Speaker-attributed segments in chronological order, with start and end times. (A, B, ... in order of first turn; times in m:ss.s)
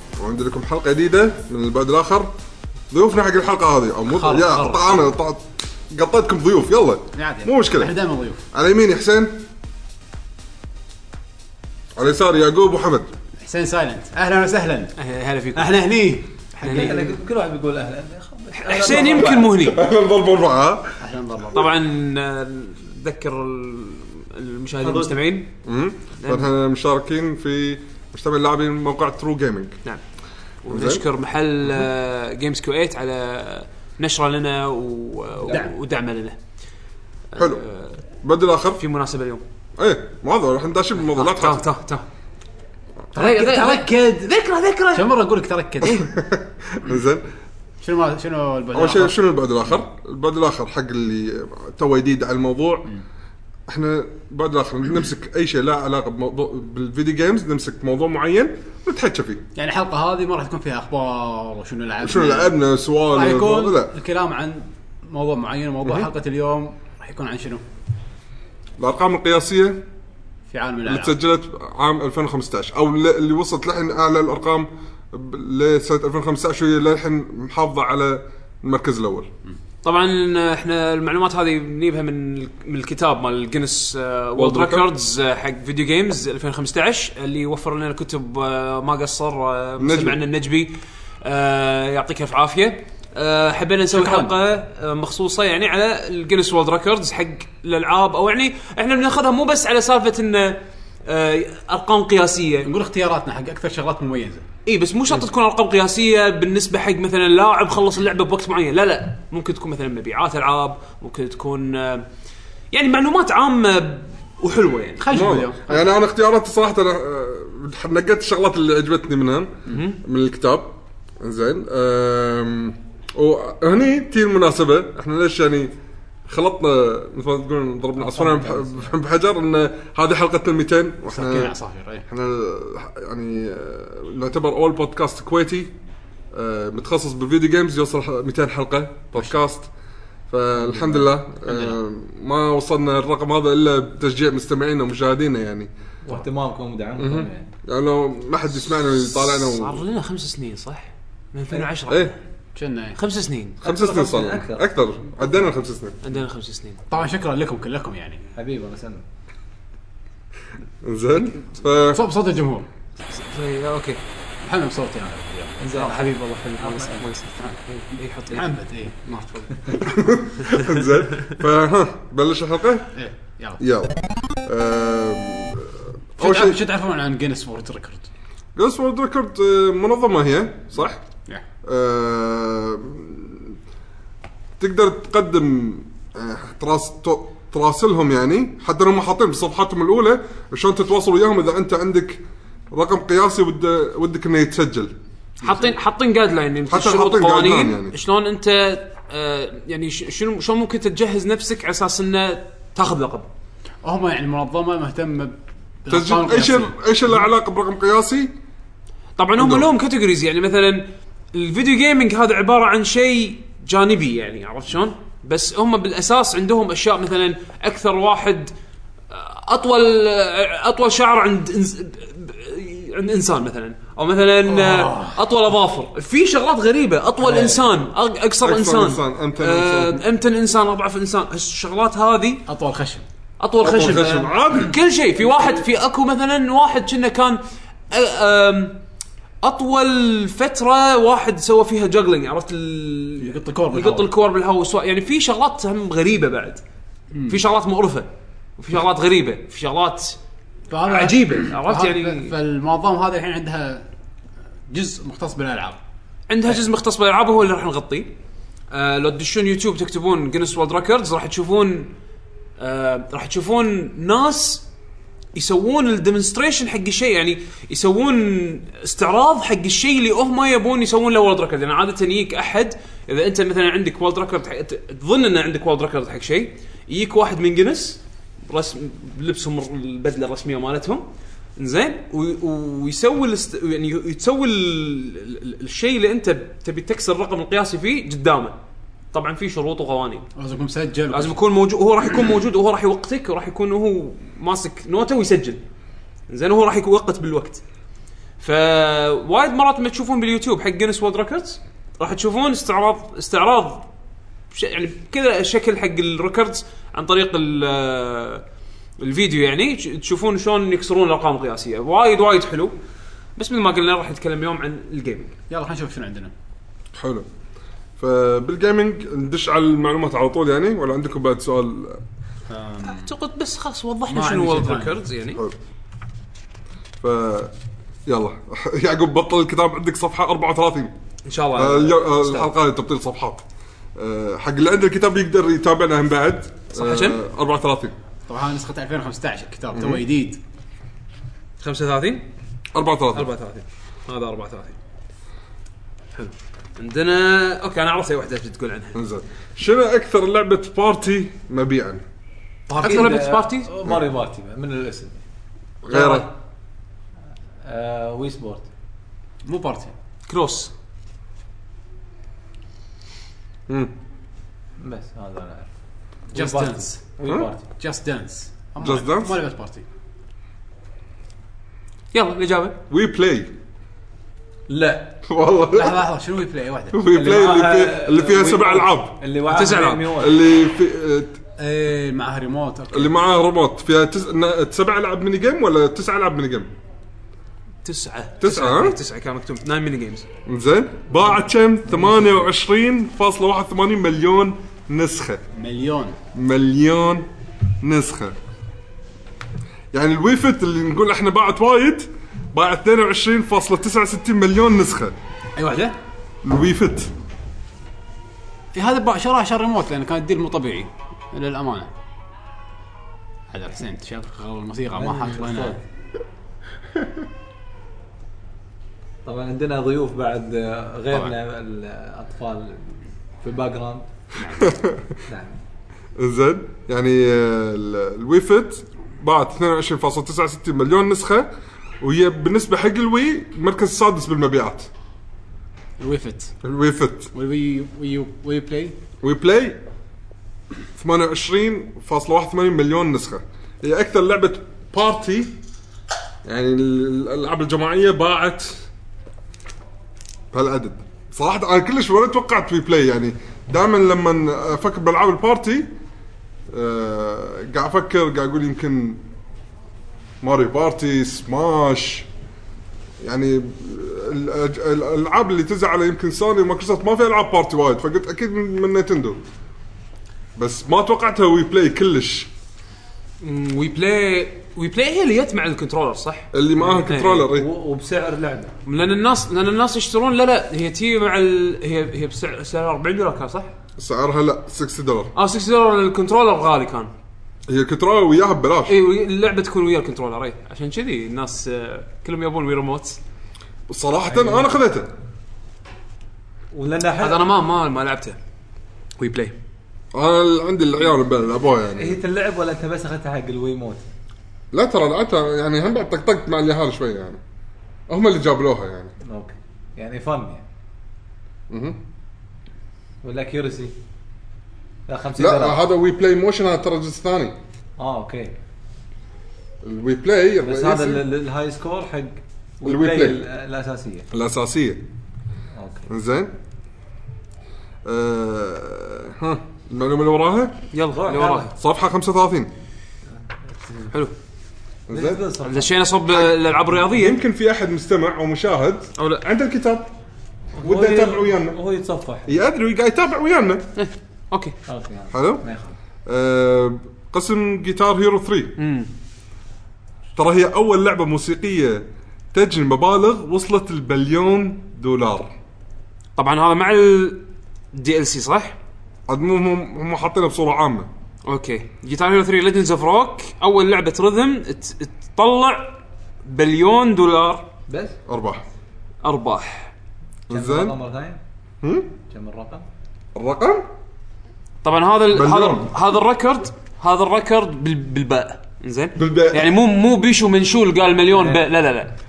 0:00.2-0:02.3 A
0:02.9-0:07.9 A
0:04.2-0:05.0 B
0:07.1-0:08.4 B
0:08.5-0:09.4 A
0:12.0-0:13.1 A
0:13.4-0:14.9 B
0:15.0-0:15.7 C
0:15.5-0:17.1 B
0:16.6-0:17.0 C
0:16.6-0:19.5 D
0:18.6-0:19.8 C
0:18.9-0:21.0 A
0:21.0-0:21.7 B
0:21.5-0:25.5 C
0:24.8-0:25.1 D
0:25.6-0:29.8 A
0:26.2-0:26.5 C
0:30.6-0:36.4 C
0:30.7-0:31.0 A
0:35.4-0:35.7 B
0:37.3-0:38.0 C
0:37.4-0:37.6 A
0:38.2-0:38.8 A
0:38.8-0:39.4 C
0:39.8-0:41.6 A
0:41.1-0:42.0 C
0:43.1-0:44.3 B
0:43.1-0:45.2 C
0:44.9-0:46.1 B
0:45.8-0:47.2 A
0:47.8-0:49.2 B
0:48.7-0:52.9 A
0:53.7-0:59.4 A
0:59.5-1:02.5 B
1:02.0-1:03.9 A
1:03.1-1:07.6 B
1:05.8-1:06.1 A
1:08.8-1:09.8 A
1:10.5-1:11.1 B
1:10.8-1:19.3 A
1:19.8-1:42.7 C
1:24.4-1:24.9 A
1:29.8-1:30.2 A
1:33.9-1:34.3 B
1:42.6-1:44.4 B
1:44.6-1:52.0 C
1:52.7-1:55.2 C
1:55.0-1:55.9 B
1:55.1-2:05.7 A
1:59.7-2:00.0 C
2:06.3-2:11.5 A
2:08.0-2:08.9 D
2:11.1-2:12.0 B
2:12.1-2:15.7 A
2:16.3-2:19.7 A
2:20.3-2:25.7 A
2:20.6-2:21.8 B
2:26.0-2:27.5 D
2:27.0-2:29.8 A
2:29.0-2:32.1 C
2:31.9-2:32.1 A
2:32.5-2:33.0 B
2:32.9-2:33.6 C
2:33.6-2:36.0 A
2:33.6-2:34.7 D
2:36.0-2:36.8 C
2:36.9-2:38.2 B
2:38.3-2:39.0 D
2:40.8-2:42.0 A
2:41.8-2:42.7 B
2:43.1-2:44.0 C
2:44.4-2:45.8 B
2:45.6-2:47.1 D
2:45.7-2:48.5 C
2:48.3-2:50.0 B
2:49.7-2:52.9 A
2:50.4-2:51.3 C
2:52.9-2:53.6 B
2:53.6-2:56.6 A
2:56.2-2:58.1 B
2:58.6-3:01.0 A
3:01.6-3:03.6 A
3:04.6-3:12.2 A
3:12.7-3:14.9 A
3:15.4-3:23.3 C
3:15.4-3:15.7 B
3:16.7-3:17.9 A
3:23.8-3:26.7 B
3:25.9-3:28.3 A
3:29.2-3:38.5 C
3:29.4-3:29.7 A
3:39.1-3:52.4 C
3:44.5-3:45.2 B
3:47.2-3:47.6 B
3:48.4-3:50.0 A
3:52.5-3:53.0 B
3:53.4-3:57.4 C
3:53.6-3:54.7 A
3:57.9-3:58.8 C
3:59.4-4:06.6 C
4:03.2-4:04.1 B
4:07.1-4:07.4 B
4:07.3-4:10.2 C
4:10.7-4:13.8 B
4:10.8-4:12.3 C
4:14.7-4:15.8 B
4:16.3-4:18.1 C
4:18.7-4:21.9 C
4:22.6-4:24.6 C
4:25.3-4:41.0 C
4:41.6-4:48.6 C
4:49.1-4:50.3 C
4:50.4-4:51.4 B
4:51.1-4:55.6 C
4:56.3-4:57.6 C
4:58.4-5:03.8 C
5:04.5-5:08.4 C
5:09.0-5:12.7 C
5:13.4-5:15.3 C
5:15.5-5:16.3 B
5:16.9-5:17.2 A
5:18.0-5:22.0 A
5:22.5-5:23.1 B
5:22.8-5:25.4 C
5:24.1-5:24.9 B
5:27.0-5:27.5 A
5:28.0-5:30.9 A
5:31.2-5:32.5 C
5:31.5-5:33.4 A
5:34.0-5:37.9 A
5:36.7-5:37.2 C
5:38.3-5:40.4 B
5:39.7-5:40.0 A
5:41.6-5:42.2 C
5:42.7-5:43.3 A
5:43.1-5:44.8 C
5:46.1-5:49.0 C
5:48.9-5:52.0 A
5:52.7-5:55.2 D
5:52.8-5:53.7 C
5:55.8-5:56.3 A
5:55.9-5:56.3 D
5:57.6-5:58.7 D
5:59.4-5:59.9 B
6:00.3-6:00.7 C
6:04.8-6:05.7 D
6:06.3-6:07.0 B
6:06.3-6:07.6 D
6:07.8-6:09.8 B
6:08.8-6:09.4 A
6:12.1-6:12.8 C
6:12.9-6:13.5 A
6:14.7-6:15.2 D
6:15.2-6:16.0 A
6:15.7-6:17.0 B
6:16.9-6:19.2 A
6:17.0-6:20.4 D
6:19.5-6:20.1 C
6:20.2-6:21.4 A
6:21.6-6:23.1 B
6:22.9-6:26.7 A
6:27.8-6:30.2 C
6:28.4-6:29.0 A
6:30.4-6:35.4 A
6:31.9-6:32.3 D
6:35.5-6:36.2 B
6:36.3-6:37.3 A
6:37.8-6:38.3 A
6:39.9-6:45.1 A
6:45.6-6:46.0 B
6:46.4-6:47.1 A
6:48.7-6:51.9 B
6:53.5-6:55.8 B
6:54.9-6:55.8 D
6:59.2-7:04.0 D
7:04.4-7:04.7 B
7:04.5-7:05.1 A
7:05.3-7:05.6 D
7:06.2-7:11.5 A
7:12.0-7:14.9 A
7:16.0-7:16.5 B
7:16.6-7:17.3 A
7:17.3-7:19.0 B
7:19.2-7:19.8 A
7:21.0-7:25.5 A
7:26.4-7:28.8 A
7:30.5-7:35.9 A
7:36.7-7:39.2 A
7:40.4-7:42.3 A
7:43.2-7:49.4 A
7:50.6-7:52.5 A
7:53.4-7:56.5 C
7:56.5-7:57.7 A
7:56.8-7:58.7 D
7:57.0-7:57.5 C
7:58.8-8:03.7 C
8:04.0-8:05.3 A
8:05.4-8:07.1 C
8:07.7-8:09.0 A
8:08.9-8:13.2 C
8:13.9-8:15.1 A
8:14.3-8:14.7 D
8:16.7-8:17.5 D
8:17.2-8:18.4 C
8:19.2-8:19.6 C
8:20.1-8:22.2 A
8:22.0-8:24.0 D
8:24.7-8:27.4 A
8:28.1-8:29.1 A
8:29.2-8:30.6 D
8:31.7-8:32.0 A
8:33.2-8:33.9 D
8:35.1-8:35.8 D
8:35.4-8:37.6 A
8:38.0-8:38.5 D
8:39.8-8:41.2 A
8:40.6-8:44.3 D
8:42.8-8:43.4 A
8:44.3-8:45.0 A
8:45.7-8:46.1 D
8:46.1-8:46.5 A
8:48.0-8:50.8 A
8:50.9-8:51.7 C
8:51.0-8:51.7 D
8:51.7-8:52.7 A
8:53.8-8:54.1 D
8:55.1-8:55.4 A
8:55.1-8:55.9 D
8:55.6-8:57.4 C
8:56.3-9:00.1 A
8:59.2-8:59.4 C
9:00.7-9:02.6 D
9:00.8-9:01.8 A
9:02.5-9:03.8 A
9:04.0-9:04.8 C
9:04.9-9:06.0 D
9:05.3-9:05.6 A
9:06.3-9:08.8 A
9:08.8-9:09.1 C
9:10.3-9:15.5 A
9:16.4-9:18.8 C
9:19.3-9:21.1 A
9:21.4-9:27.7 C
9:27.9-9:28.2 D
9:28.2-9:28.6 A
9:29.2-9:29.9 C
9:30.5-9:31.0 A
9:30.5-9:31.4 D
9:31.8-9:32.1 A
9:32.3-9:32.8 D
9:33.3-9:33.9 A
9:34.8-9:42.1 C
9:35.3-9:35.9 A
9:39.2-9:39.7 A
9:41.3-9:41.6 D